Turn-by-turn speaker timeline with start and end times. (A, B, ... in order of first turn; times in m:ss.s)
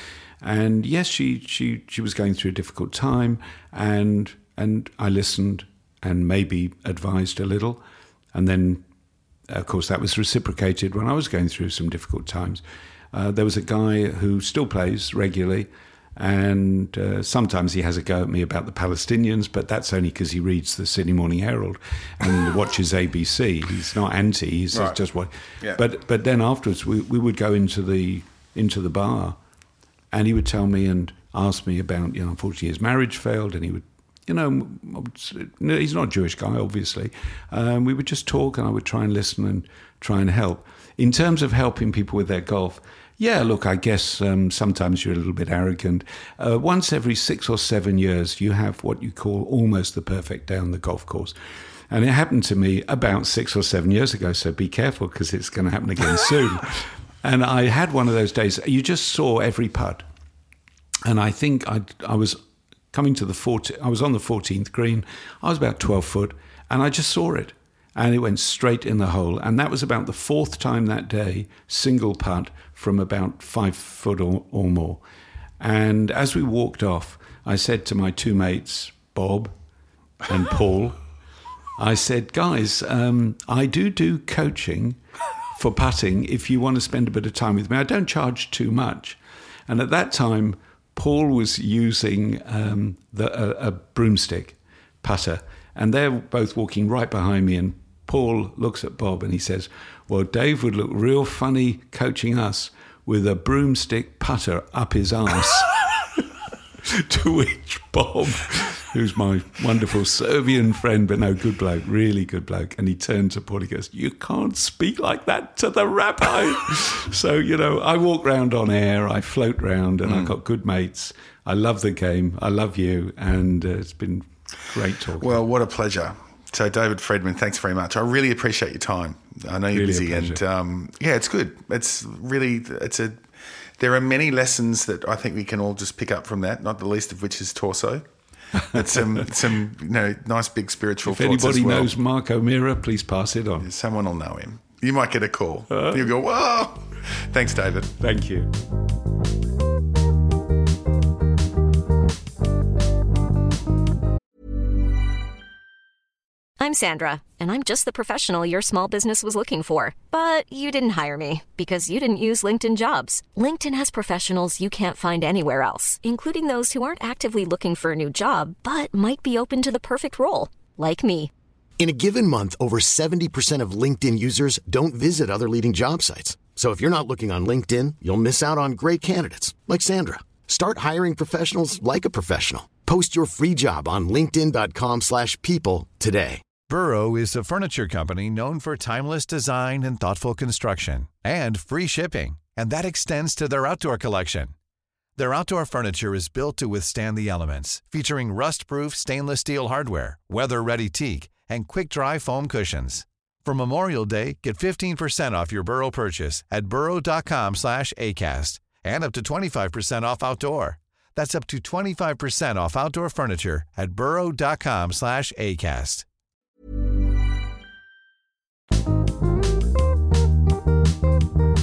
0:00.4-0:07.8 A
0:08.3-0:08.8 A
0:09.5-0:12.6 A
0:13.1-0:29.4 A
0:30.1-0:51.3 A
0:51.9-1:00.0 A
1:01.0-1:02.4 A
1:02.9-1:15.0 A
1:15.6-1:19.5 A
1:20.3-1:21.0 A
1:21.8-1:25.0 A
1:25.6-1:45.8 A
1:46.9-2:05.4 A
2:00.0-2:00.3 B
2:05.2-2:13.2 B
2:09.7-2:10.4 A
2:13.8-2:18.0 B
2:18.7-2:21.9 B
2:18.8-2:19.0 A
2:21.1-2:23.7 A
2:23.6-2:27.9 B
2:25.7-2:26.1 A
2:28.0-2:28.5 A
2:36.6-2:51.3 C
2:51.8-3:06.4 D
3:06.7-3:14.5 E
3:15.2-3:36.1 E